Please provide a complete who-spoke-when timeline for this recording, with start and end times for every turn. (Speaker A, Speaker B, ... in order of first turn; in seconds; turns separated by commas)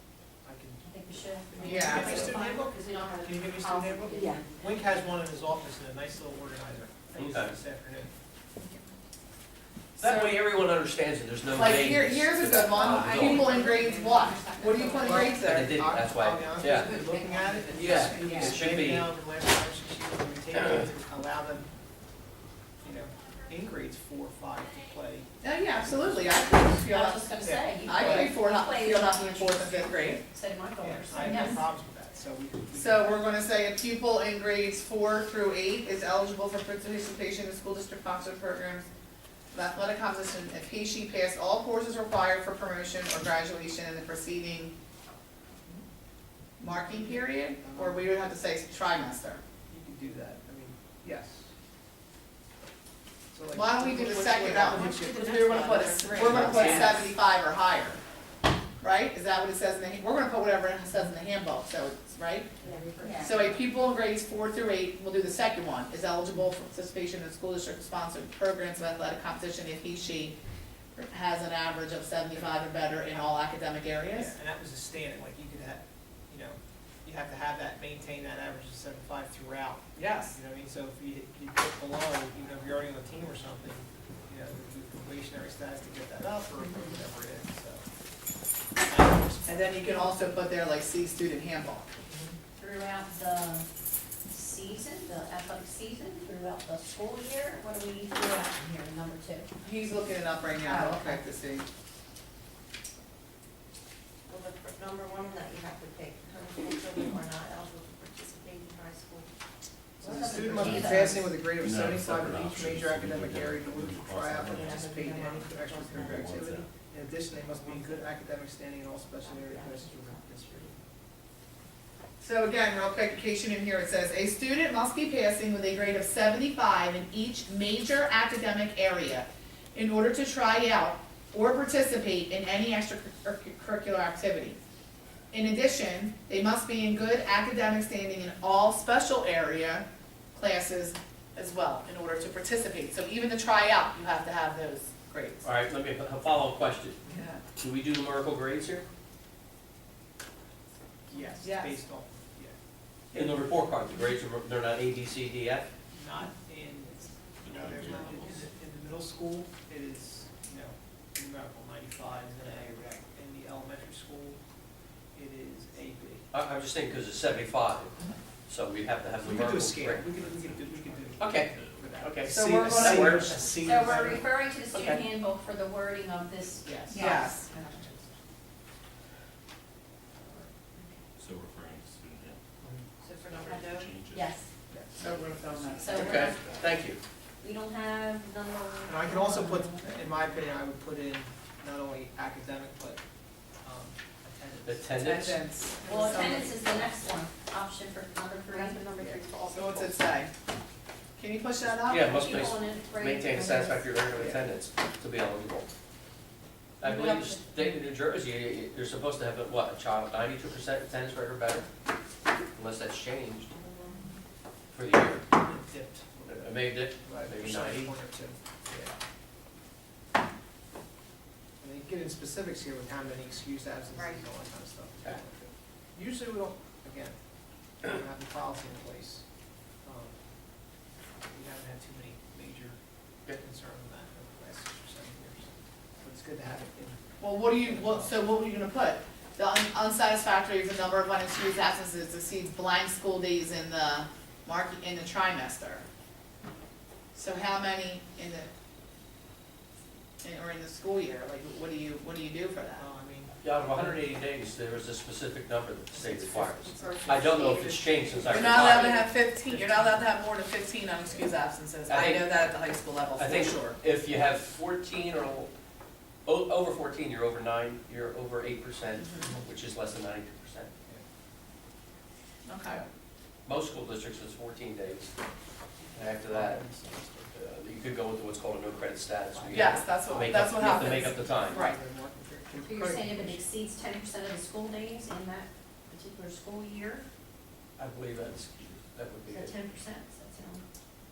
Speaker A: 0.4-8.1, Speaker B: 0.8-2.6, Speaker C: 1.6-2.3, Speaker D: 1.9-4.7, Speaker E: 7.2-7.6, Speaker C: 10.0-10.4, Speaker E: 10.0-13.6, Speaker C: 11.5-15.7, Speaker D: 13.5-15.2, Speaker A: 14.9-21.7, Speaker E: 15.3-16.9, Speaker D: 16.7-18.5, Speaker E: 17.7-19.1, Speaker A: 22.8-26.4, Speaker C: 25.4-27.3, Speaker B: 26.4-31.6, Speaker A: 27.4-28.4, Speaker C: 27.8-30.2, Speaker A: 30.8-33.2, Speaker C: 32.7-38.9, Speaker C: 39.5-44.7, Speaker C: 46.6-49.4, Speaker A: 46.9-48.1, Speaker A: 49.7-51.5, Speaker A: 53.3-55.7, Speaker C: 53.5-58.0, Speaker D: 54.1-56.9, Speaker E: 56.2-57.0, Speaker C: 58.8-62.5, Speaker D: 62.6-63.5, Speaker B: 63.0-63.3, Speaker C: 63.1-70.4, Speaker C: 70.9-74.3, Speaker A: 74.1-87.8, Speaker C: 80.0-80.4, Speaker B: 86.6-87.0, Speaker A: 88.8-89.5, Speaker C: 89.4-91.9, Speaker A: 92.1-92.3, Speaker B: 92.5-93.7, Speaker B: 94.3-99.5, Speaker C: 99.6-101.7, Speaker B: 100.6-101.2, Speaker D: 104.3-109.3, Speaker A: 110.0-120.8, Speaker B: 110.0-111.3, Speaker D: 110.0-111.1, Speaker F: 110.6-110.9, Speaker F: 111.5-115.0, Speaker D: 114.4-116.3, Speaker F: 115.6-116.7, Speaker D: 117.3-118.0, Speaker D: 119.2-120.8, Speaker C: 122.2-134.6, Speaker C: 135.3-145.5, Speaker E: 145.4-147.0, Speaker C: 147.1-147.4, Speaker E: 147.5-148.8, Speaker A: 151.1-152.6, Speaker C: 151.4-151.8, Speaker E: 153.1-155.7, Speaker A: 153.1-153.5, Speaker A: 155.9-164.4, Speaker F: 157.4-158.5, Speaker A: 165.1-166.2, Speaker E: 166.3-170.1, Speaker A: 169.2-174.3, Speaker F: 170.0-172.1, Speaker E: 171.2-173.4, Speaker C: 172.3-173.5, Speaker B: 173.4-177.2, Speaker E: 174.7-175.0, Speaker A: 176.6-177.1, Speaker C: 176.9-177.7, Speaker A: 177.7-178.0, Speaker F: 181.2-182.4, Speaker D: 183.0-183.9, Speaker F: 183.4-184.4, Speaker B: 184.1-184.5, Speaker A: 184.7-185.0, Speaker F: 184.9-186.8, Speaker C: 185.0-186.3, Speaker B: 185.8-186.2, Speaker E: 185.9-187.0, Speaker B: 187.4-189.9, Speaker A: 188.8-193.0, Speaker A: 193.6-195.0, Speaker E: 194.6-195.4, Speaker C: 195.0-196.5, Speaker B: 195.8-198.8, Speaker A: 195.8-196.4, Speaker D: 198.5-200.0, Speaker C: 199.5-200.3, Speaker C: 201.2-202.4, Speaker E: 201.9-205.7, Speaker B: 202.1-204.0, Speaker C: 204.2-204.4, Speaker E: 206.8-211.7, Speaker B: 206.8-207.4, Speaker E: 212.5-213.5, Speaker D: 213.7-214.1, Speaker E: 214.7-215.2, Speaker A: 215.3-218.9, Speaker E: 216.3-217.9, Speaker A: 221.6-227.2, Speaker D: 223.9-224.2, Speaker A: 227.8-229.2, Speaker A: 229.8-230.1, Speaker A: 231.2-238.1, Speaker C: 237.2-245.9, Speaker C: 247.1-248.5, Speaker C: 250.2-252.8, Speaker A: 252.7-254.0, Speaker E: 253.4-259.0, Speaker A: 255.9-257.0, Speaker D: 256.8-259.1, Speaker C: 258.3-263.8, Speaker A: 259.5-259.9, Speaker E: 261.9-262.3, Speaker E: 263.2-265.5, Speaker E: 266.2-270.7, Speaker C: 269.0-269.2, Speaker C: 272.4-272.8, Speaker E: 273.4-275.1, Speaker A: 275.9-277.3, Speaker E: 275.9-281.6, Speaker A: 279.3-283.4, Speaker C: 279.5-281.8, Speaker B: 282.6-287.0, Speaker E: 287.8-289.5, Speaker B: 289.3-290.6